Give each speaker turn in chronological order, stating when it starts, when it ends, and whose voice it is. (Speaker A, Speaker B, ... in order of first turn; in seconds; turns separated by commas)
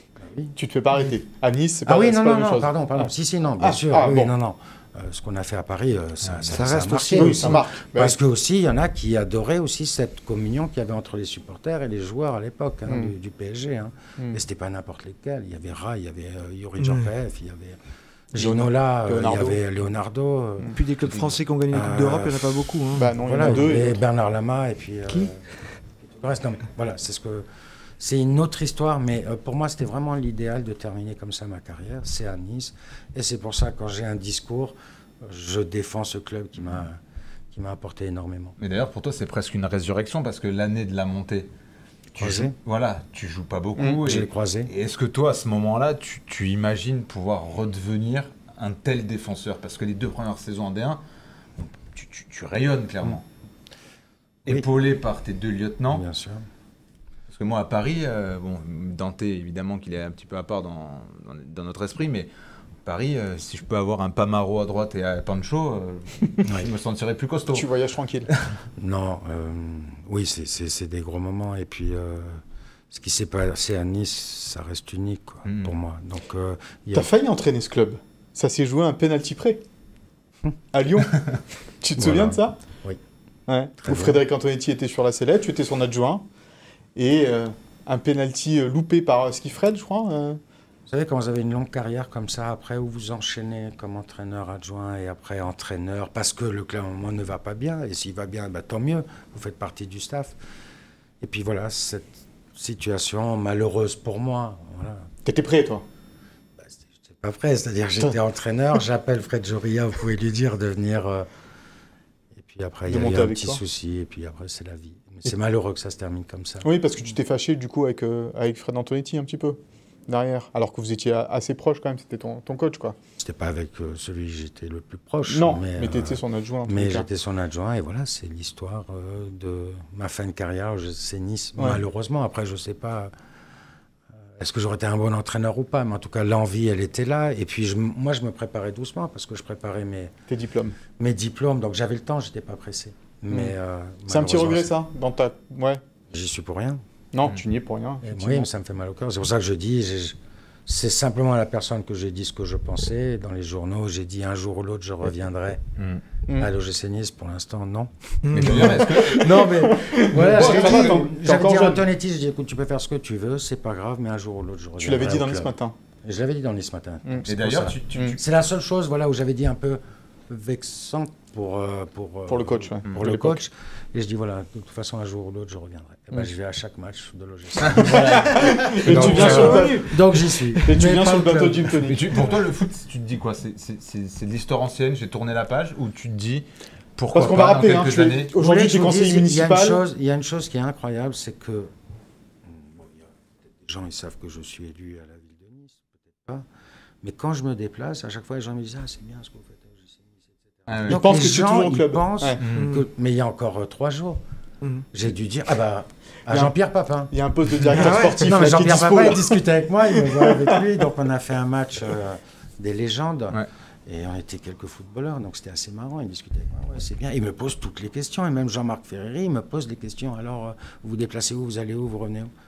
Speaker A: 0.2-0.6, Speaker B: 0.6-4.3, Speaker A: 1.9-17.8, Speaker C: 6.2-6.6, Speaker D: 6.5-7.6, Speaker B: 7.1-8.2, Speaker B: 12.9-13.1, Speaker D: 16.8-17.1, Speaker A: 18.3-20.8, Speaker B: 18.4-19.6, Speaker D: 20.8-23.7, Speaker A: 21.7-25.4, Speaker B: 22.9-24.0, Speaker A: 26.0-27.5, Speaker A: 28.0-37.0, Speaker A: 37.5-38.6, Speaker C: 38.6-41.5, Speaker C: 42.1-51.0, Speaker A: 42.2-42.5, Speaker A: 44.0-44.7, Speaker C: 51.9-53.2, Speaker C: 54.5-56.0, Speaker A: 55.9-56.5, Speaker C: 57.3-62.3, Speaker C: 62.9-67.7, Speaker A: 66.4-66.7, Speaker B: 67.5-68.3, Speaker C: 68.3-68.6, Speaker A: 68.8-77.1, Speaker C: 75.5-75.8, Speaker B: 76.9-79.6, Speaker B: 80.7-81.3, Speaker B: 81.8-82.6, Speaker A: 82.0-83.0, Speaker B: 83.5-86.2, Speaker A: 83.8-84.2, Speaker B: 87.0-90.4, Speaker A: 90.9-100.4, Speaker A: 101.2-105.1, Speaker B: 105.2-105.8, Speaker A: 106.6-111.3, Speaker A: 112.3-116.7, Speaker B: 112.9-113.6, Speaker B: 116.6-123.0, Speaker A: 123.2-133.1, Speaker B: 125.3-127.1, Speaker A: 134.3-140.1, Speaker B: 140.3-140.8, Speaker A: 141.0-144.7, Speaker B: 143.3-143.6, Speaker B: 144.1-145.8, Speaker A: 146.1-146.8, Speaker B: 147.1-148.5, Speaker A: 148.0-155.6, Speaker C: 155.8-156.0, Speaker A: 156.3-157.9, Speaker D: 158.2-158.8, Speaker C: 158.3-159.4, Speaker A: 158.4-165.5, Speaker B: 158.6-161.8, Speaker C: 160.2-161.0, Speaker B: 164.8-165.8, Speaker A: 166.0-181.8, Speaker C: 167.3-168.2, Speaker B: 172.3-173.4, Speaker C: 177.6-178.1, Speaker B: 177.8-179.9, Speaker D: 178.8-180.7, Speaker C: 179.0-179.3, Speaker B: 180.7-182.3, Speaker C: 181.9-186.4, Speaker C: 187.0-188.3, Speaker B: 187.1-189.8, Speaker A: 188.3-191.7, Speaker A: 192.4-196.5, Speaker A: 197.0-204.2, Speaker C: 200.7-201.3, Speaker B: 200.9-202.4, Speaker C: 202.4-202.7, Speaker D: 202.5-202.8, Speaker A: 204.9-207.1, Speaker B: 206.3-206.6, Speaker B: 207.1-209.4, Speaker A: 207.6-222.3, Speaker D: 207.7-208.2, Speaker B: 209.9-210.6